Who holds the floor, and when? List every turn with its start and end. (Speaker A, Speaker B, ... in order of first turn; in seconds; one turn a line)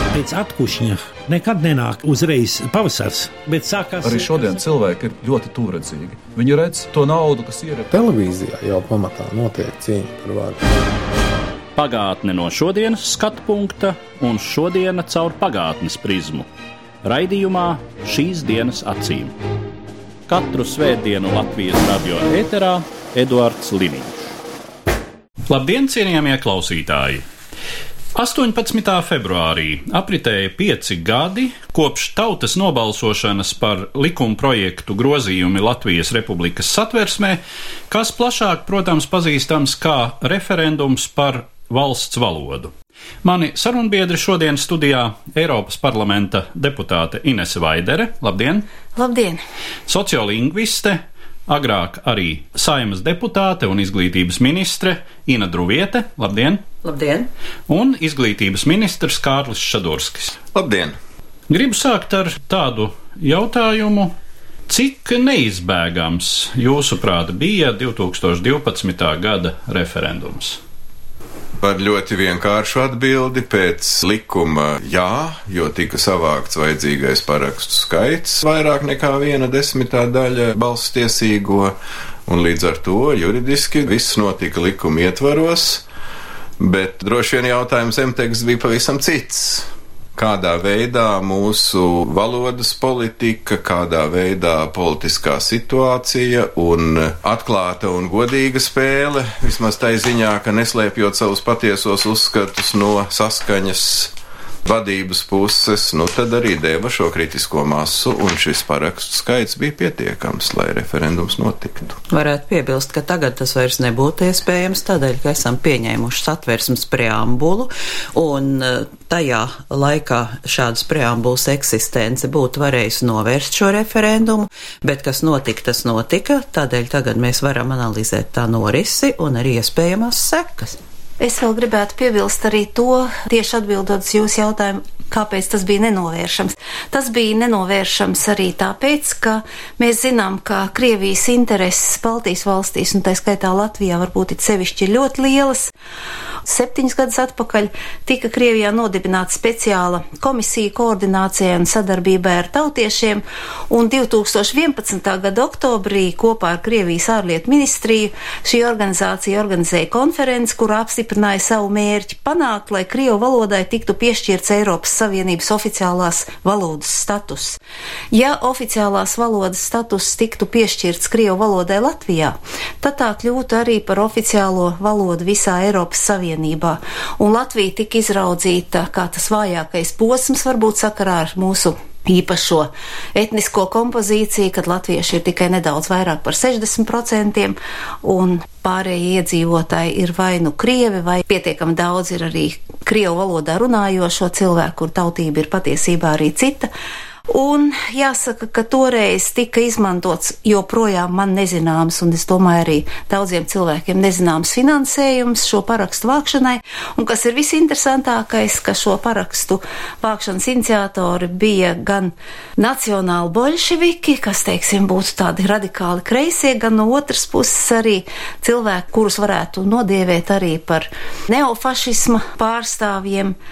Speaker A: 0.1-4.4
Speaker B: 4.0-7.9
Speaker C: 7.9-10.7
Speaker D: 11.8-16.5
Speaker D: 17.0-19.4
Speaker D: 20.3-24.3
Speaker D: 25.5-27.2
Speaker D: 28.1-42.7
Speaker D: 43.2-48.7
Speaker E: 49.0-49.4
Speaker D: 49.9-56.6
Speaker F: 56.8-57.3
Speaker D: 57.7-60.4
Speaker G: 60.5-61.0
Speaker D: 61.5-64.2
Speaker D: 64.7-70.6
Speaker G: 71.6-81.7
Speaker G: 82.3-85.8
Speaker G: 86.6-104.1
Speaker G: 104.7-112.0
Speaker F: 112.1-130.8
Speaker E: 131.2-145.7
Speaker E: 146.5-167.6
Speaker E: 168.1-196.7
Speaker E: 197.3-223.4